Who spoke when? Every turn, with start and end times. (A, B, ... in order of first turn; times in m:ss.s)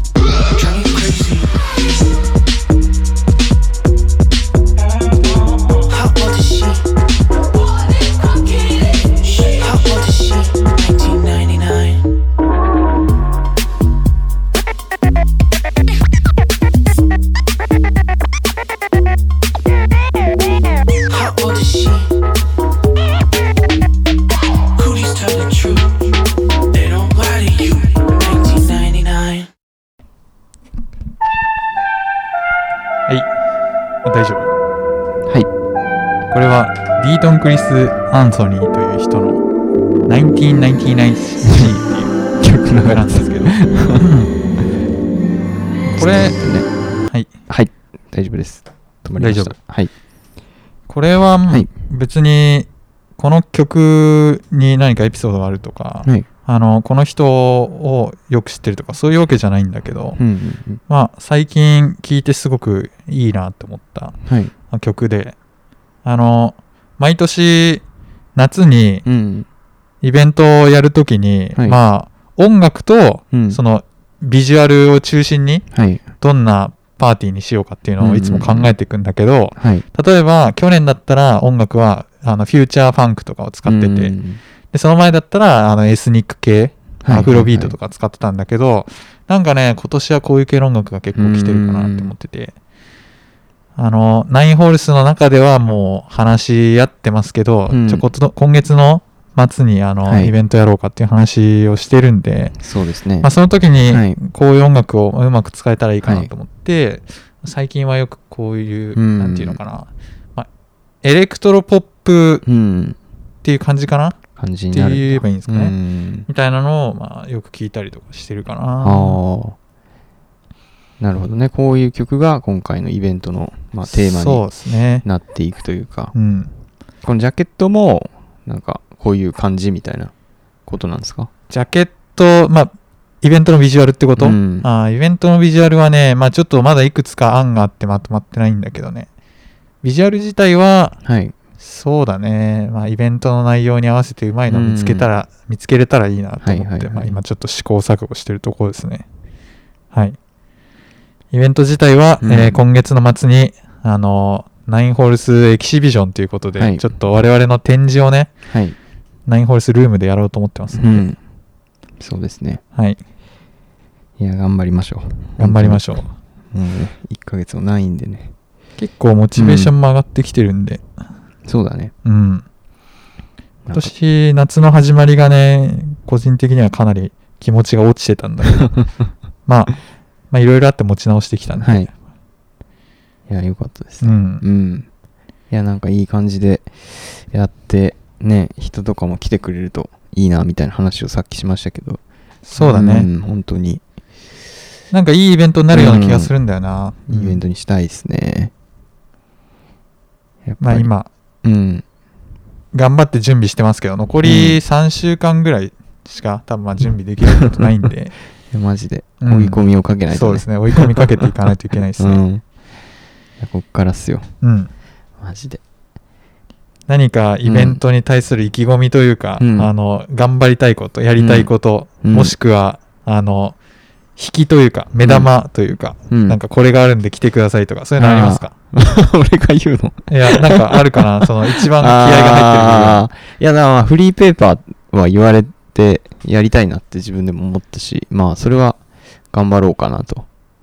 0:00.4-0:01.5 A
0:05.8-0:06.8 A
0:09.4-0:12.0 A
0:21.1-0:22.1 A
0:24.8-0:25.9 A
0:26.7-0:29.5 A
0:34.0-0:34.5 B
0:36.3-0:39.4 B
0:40.1-0:42.2 B
0:41.4-0:41.7 C
0:42.4-0:44.1 C
0:42.8-0:44.3 B
0:45.8-0:46.7 C
0:46.0-0:46.4 B
0:47.5-0:49.9 C
0:49.2-0:49.6 B
0:50.9-1:00.2 B
1:00.2-1:00.8 C
1:00.9-1:04.2 B
1:04.2-1:04.5 C
1:04.7-1:05.4 B
1:06.0-1:07.8 B
1:08.3-1:09.0 B
1:09.0-1:09.5 C
1:10.0-1:15.6 B
1:13.3-1:13.6 C
1:15.7-1:16.0 C
1:16.2-1:24.2 B
1:18.0-1:18.7 C
1:19.6-1:19.8 C
1:23.6-1:24.4 C
1:24.7-1:32.6 B
1:27.0-1:27.8 C
1:31.1-1:32.1 C
1:33.8-1:42.5 B
1:37.7-1:38.1 C
1:40.0-1:40.3 C
1:42.6-1:43.3 C
1:43.2-1:50.5 B
1:43.8-1:44.2 C
1:46.0-1:46.3 C
1:48.9-1:49.6 C
1:51.0-1:52.4 B
1:52.4-1:53.0 C
1:53.4-1:54.2 B
1:54.4-1:56.3 C
1:54.7-1:55.7 B
1:56.3-1:59.2 B
1:58.8-1:59.6 C
2:01.0-2:04.5 C
2:03.8-2:05.0 B
2:05.0-2:06.1 C
2:06.1-2:06.5 B
2:07.0-2:10.1 C
2:10.6-2:11.3 C
2:11.5-2:19.1 B
2:14.2-2:14.7 C
2:19.8-2:21.0 B
2:21.0-2:21.3 C
2:21.6-2:29.0 B
2:24.5-2:25.1 C
2:26.4-2:27.2 C
2:29.9-2:30.2 B
2:31.3-2:38.3 B
2:32.2-2:32.6 C
2:36.6-2:36.9 C
2:38.5-2:38.8 C
2:39.3-2:41.1 B
2:40.7-2:41.2 C
2:42.0-2:42.6 C
2:42.7-2:43.0 B
2:44.2-2:48.3 C
2:45.4-2:46.1 B
2:48.8-2:50.8 B
2:49.4-2:49.7 C
2:51.4-2:51.9 C
2:52.0-2:52.4 B
2:53.6-2:53.9 C
2:53.7-2:58.7 B
2:59.4-2:59.8 B
3:00.3-3:01.9 B
3:01.6-3:01.9 C
3:03.3-3:04.9 C
3:04.0-3:04.4 B
3:05.5-3:12.0 C
3:12.4-3:13.1 B
3:12.6-3:13.8 C
3:14.9-3:17.4 B
3:15.7-3:16.3 C
3:17.1-3:18.5 C
3:20.4-3:20.9 C
3:20.6-3:21.1 B
3:21.4-3:21.8 C
3:22.7-3:28.1 B
3:24.2-3:24.6 C
3:27.3-3:27.7 C
3:28.5-3:31.2 C
3:29.2-3:32.2 B
3:32.0-3:32.4 C
3:33.4-3:34.3 C
3:34.4-3:34.7 B
3:35.2-3:35.6 C
3:36.9-3:43.6 B
3:37.4-3:37.8 C
3:39.4-3:39.7 C
3:41.2-3:42.4 C
3:44.2-3:48.5 B
3:45.0-3:45.3 C
3:46.1-3:46.4 C
3:48.0-3:58.8 C
3:50.1-3:53.0 B
3:59.3-4:00.3 C